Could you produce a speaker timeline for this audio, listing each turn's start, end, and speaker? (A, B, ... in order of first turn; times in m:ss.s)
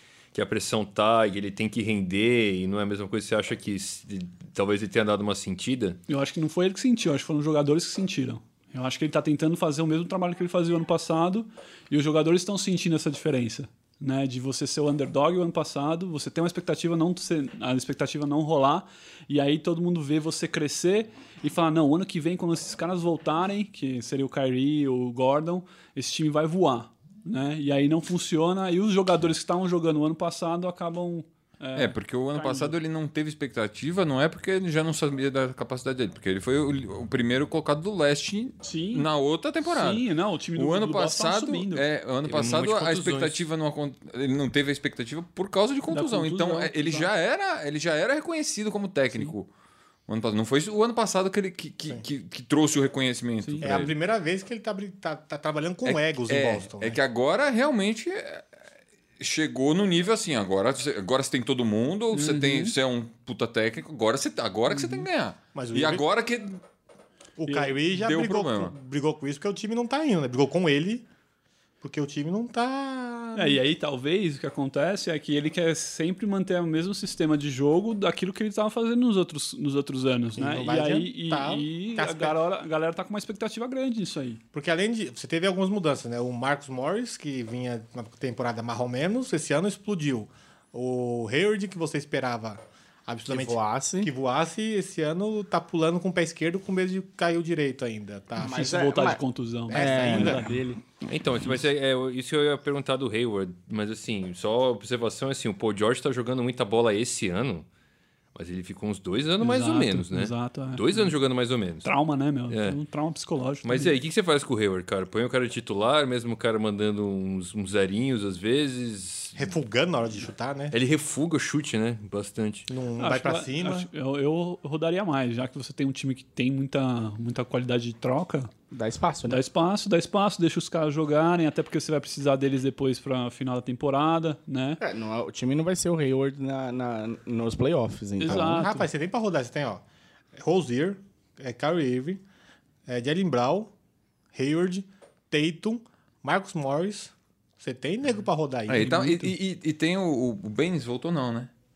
0:00.3-0:06.0 A
0:06.1-0:32.8 B
0:31.8-0:49.5 C
0:38.6-0:39.1 B
0:39.6-0:41.8 B
0:42.2-0:43.4 A
0:45.9-0:47.1 B
0:50.1-0:54.0 C
0:53.4-0:53.8 B
0:53.6-0:57.0 D
0:55.8-0:58.6 C
0:59.2-1:06.6 C
1:02.1-1:02.8 B
1:04.7-1:05.0 B
1:05.5-1:06.0 D
1:07.4-1:11.0 D
1:07.9-1:08.7 C
1:11.8-1:13.6 D
1:13.4-1:24.4 B
1:20.4-1:22.4 D
1:24.5-1:38.7 D
1:33.3-1:34.1 E
1:38.4-1:40.6 E
1:38.5-1:40.8 B
1:39.7-1:40.5 D
1:41.0-1:47.7 A
1:48.4-1:51.9 A
1:49.4-1:51.1 B
1:51.8-1:53.9 B
1:52.5-1:52.8 A
1:53.6-1:59.5 A
1:59.4-2:00.8 D
2:00.7-2:02.7 A
2:02.7-2:03.9 D
2:03.0-2:08.5 B
2:08.7-2:09.4 E
2:09.3-2:14.8 B
2:14.8-2:18.7 E
2:18.2-2:18.8 B
2:18.3-2:19.8 D
2:20.4-2:22.2 D
2:22.9-2:23.7 D
2:24.3-2:29.1 D
2:28.7-2:31.5 C
2:29.0-2:29.3 B